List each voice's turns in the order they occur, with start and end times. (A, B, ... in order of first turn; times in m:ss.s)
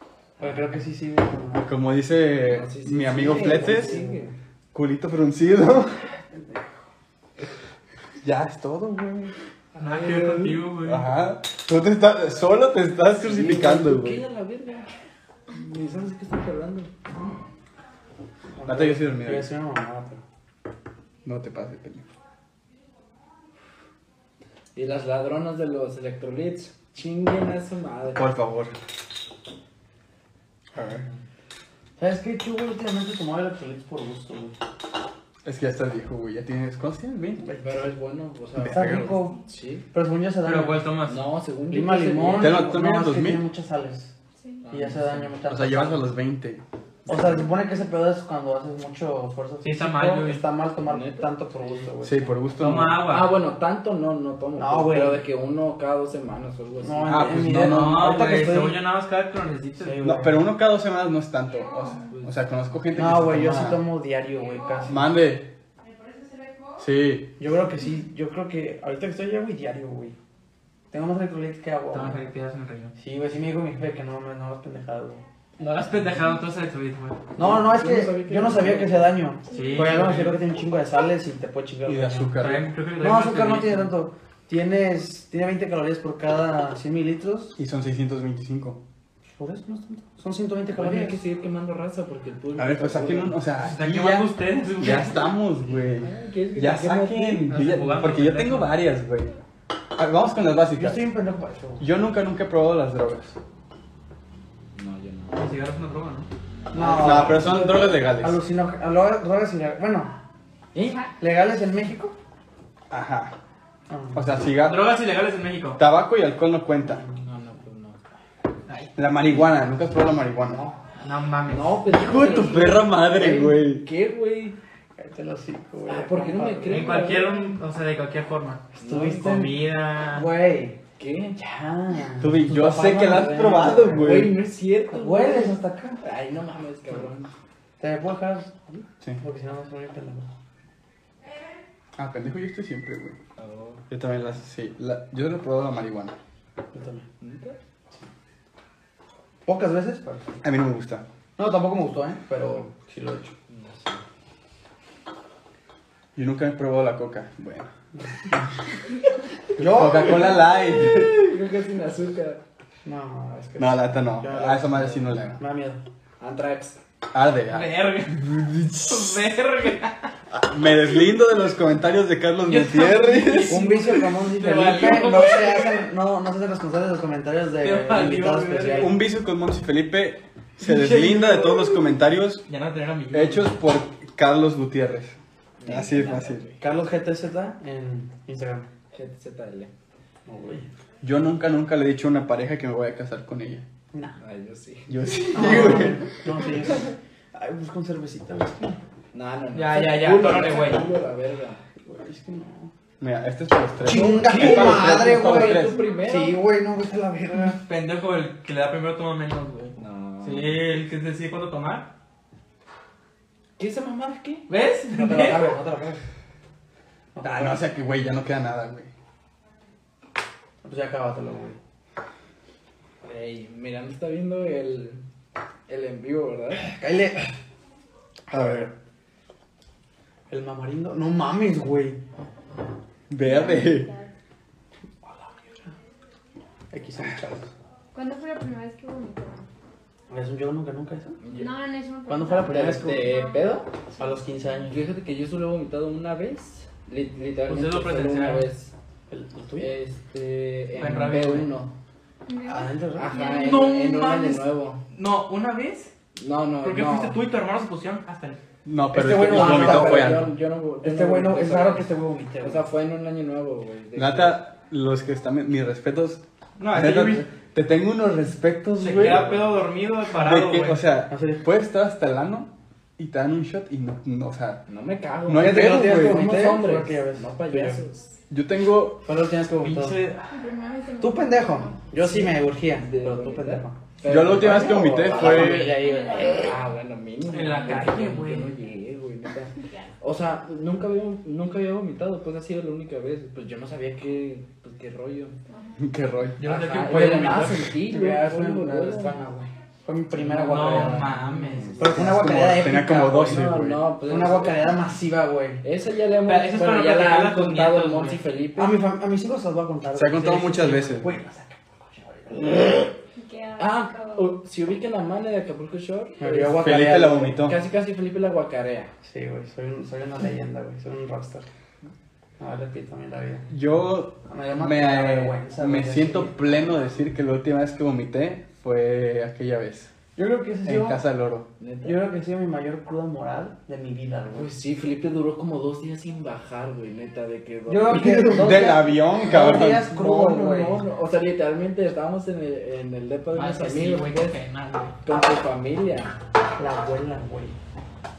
0:00.4-0:01.7 A
0:01.6-0:04.0 B
0:02.4-0:04.3 C
0:03.2-0:04.3 A
0:04.7-0:06.0 B
0:08.2-0:09.3 B
0:09.8-0:10.7 C
0:09.8-0:11.1 D
0:10.8-0:14.2 B
0:13.2-0:14.9 C
0:15.5-0:16.9 C
0:18.6-0:20.2 A
0:18.6-0:19.5 B
0:21.2-0:22.0 B
0:24.8-0:28.3 C
0:28.2-0:28.8 B
0:30.8-0:31.0 B
0:32.0-0:34.5 A
0:35.4-0:37.5 B
0:37.4-0:37.7 A
0:37.6-0:39.9 C
0:38.6-0:39.1 B
0:38.6-0:39.4 A
0:39.9-0:40.9 A
0:40.4-0:41.2 D
0:41.1-0:42.6 C
0:41.7-0:44.1 A
0:42.4-0:43.5 B
0:44.4-0:44.7 E
0:44.6-0:45.3 C
0:44.7-0:46.1 A
0:45.5-0:46.6 B
0:47.1-0:52.4 A
0:49.6-0:50.4 D
0:50.8-0:51.9 C
0:52.0-0:53.0 B
0:52.6-0:53.4 D
0:53.0-0:57.3 C
0:54.6-0:55.2 A
0:56.8-0:58.8 A
0:57.1-0:58.2 B
0:57.5-1:00.0 D
0:59.8-1:00.5 A
1:00.0-1:03.8 B
1:02.9-1:05.0 A
1:04.9-1:05.5 B
1:05.9-1:06.7 E
1:06.8-1:07.3 B
1:07.4-1:10.2 A
1:10.9-1:12.2 A
1:11.9-1:13.0 D
1:13.0-1:15.2 A
1:15.6-1:17.2 D
1:17.4-1:22.4 A
1:17.4-1:19.2 C
1:19.5-1:20.0 E
1:19.5-1:20.4 D
1:21.8-1:22.7 B
1:22.4-1:23.9 D
1:23.0-1:27.6 A
1:27.6-1:28.8 B
1:29.4-1:31.2 A
1:30.7-1:33.4 C
1:32.6-1:39.3 B
1:33.6-1:35.3 D
1:36.0-1:37.5 C
1:37.5-1:38.8 D
1:40.0-1:41.0 B
1:40.7-1:41.9 A
1:41.8-1:43.4 B
1:44.7-1:45.4 C
1:45.3-1:46.3 D
1:46.7-1:50.1 A
1:46.8-1:48.4 B
1:47.0-1:47.5 C
1:50.8-1:51.0 C
1:51.2-1:52.2 A
1:52.9-1:53.3 B
1:53.9-1:54.3 A
1:54.1-1:54.9 B
1:54.6-1:55.8 D
1:55.8-1:57.0 B
1:57.2-1:58.0 C
1:59.0-2:00.7 B
2:01.0-2:01.8 D
2:01.5-2:04.6 C
2:01.9-2:03.9 B
2:05.0-2:07.0 A
2:05.9-2:07.6 C
2:06.7-2:10.3 D
2:08.8-2:09.4 C
2:08.8-2:09.6 A
2:10.1-2:10.8 A
2:11.0-2:11.4 C
2:11.4-2:14.3 A
2:12.2-2:14.4 B
2:13.6-2:17.3 C
2:14.9-2:16.0 A
2:17.8-2:20.3 A
2:22.0-2:23.2 B
2:23.4-2:23.8 C
2:23.9-2:26.2 B
2:26.7-2:27.1 A
2:27.2-2:27.6 C
2:29.5-2:30.4 A
2:30.4-2:31.1 B
2:31.4-2:33.3 A
2:33.5-2:34.0 C
2:36.2-2:37.7 B
2:39.6-2:40.4 A
2:39.6-2:41.2 B
2:40.7-2:42.4 C
2:42.8-2:45.8 A
2:43.6-2:45.4 B
2:46.2-2:46.8 C
2:47.1-2:49.2 B
2:47.5-2:48.3 D
2:48.9-2:50.1 D
2:50.3-2:53.7 B
2:52.5-2:55.9 D
2:53.5-2:59.0 A
2:57.6-2:59.0 D
2:58.8-3:02.4 B
3:00.6-3:02.0 D
3:02.5-3:03.5 D
3:03.1-3:06.5 B
3:05.6-3:06.6 C
3:06.6-3:08.7 A
3:08.9-3:09.7 C
3:10.3-3:10.7 A
3:11.0-3:13.6 B
3:13.9-3:14.2 A
3:14.2-3:15.7 C
3:14.9-3:16.0 B
3:15.3-3:18.8 A
3:19.1-3:21.6 C
3:19.5-3:20.9 D
3:21.8-3:22.7 A
3:23.0-3:25.8 B
3:23.8-3:27.6 A
3:23.9-3:26.4 C
3:25.7-3:26.1 E
3:27.6-3:31.9 D
3:29.8-3:30.6 C
3:33.6-3:34.5 C
3:34.5-3:35.6 D
3:34.9-3:36.0 A
3:37.2-3:37.6 A
3:37.2-3:38.9 B
3:40.6-3:41.6 A
3:43.0-3:45.0 C
3:45.7-3:46.7 C
3:46.7-3:47.3 A
3:48.3-3:48.7 B
3:50.3-3:52.0 A
3:53.1-3:53.9 B
3:53.2-3:54.1 E
3:55.0-3:55.7 A
3:56.7-3:57.5 A
3:57.9-3:59.5 E
4:00.1-4:01.2 A
4:01.2-4:01.6 C
4:01.4-4:04.2 E
4:02.1-4:03.2 A
4:02.4-4:03.7 C
4:04.0-4:04.9 A
4:04.7-4:08.7 C
4:07.5-4:08.5 D
4:09.1-4:09.7 A
4:09.6-4:11.7 C
4:10.8-4:11.5 D
4:12.3-4:14.0 E
4:12.4-4:13.2 A
4:13.0-4:14.8 C
4:13.3-4:15.9 D
4:16.2-4:17.2 C
4:16.6-4:18.4 D
4:18.6-4:20.3 B
4:18.9-4:20.3 A
4:19.3-4:21.9 C
4:20.8-4:22.7 A
4:22.4-4:24.4 C
4:24.0-4:29.6 B
4:26.6-4:27.3 D
4:28.8-4:30.8 D
4:30.1-4:34.6 B
4:31.1-4:31.4 A
4:34.7-4:38.2 C
4:35.3-4:36.4 B
4:35.3-4:37.8 A
4:38.3-4:39.0 B
4:39.0-4:40.0 A
4:39.6-4:40.3 D
4:40.3-4:41.9 E
4:41.0-4:43.8 A
4:42.0-4:55.4 C
4:44.0-4:45.8 B
4:44.3-4:46.6 A
4:45.7-4:46.7 E
4:47.3-4:48.6 D
4:55.5-4:55.9 E
4:55.8-4:56.4 B
4:56.4-4:57.7 D
4:56.5-4:59.2 C
4:56.5-5:01.2 A
5:00.2-5:02.3 C
5:00.4-5:01.9 D
5:01.8-5:05.6 A
5:01.9-5:03.9 B
5:03.2-5:04.7 C
5:05.6-5:08.8 C
5:06.2-5:08.2 D
5:08.6-5:12.9 A
5:10.0-5:11.1 B
5:13.2-5:14.4 E
5:13.6-5:18.9 C
5:16.2-5:17.3 A
5:16.6-5:17.6 B
5:19.0-5:21.5 A
5:22.4-5:23.5 A
5:23.5-5:29.9 B
5:24.3-5:26.8 A
5:30.2-5:31.0 A
5:30.6-5:31.5 B
5:31.6-5:32.0 C
5:31.8-5:34.5 A
5:34.4-5:38.5 C
5:37.7-5:40.8 A
5:38.1-5:40.3 B
5:40.0-5:44.4 C
5:43.3-5:45.0 D
5:45.0-5:46.2 C
5:46.6-5:47.6 A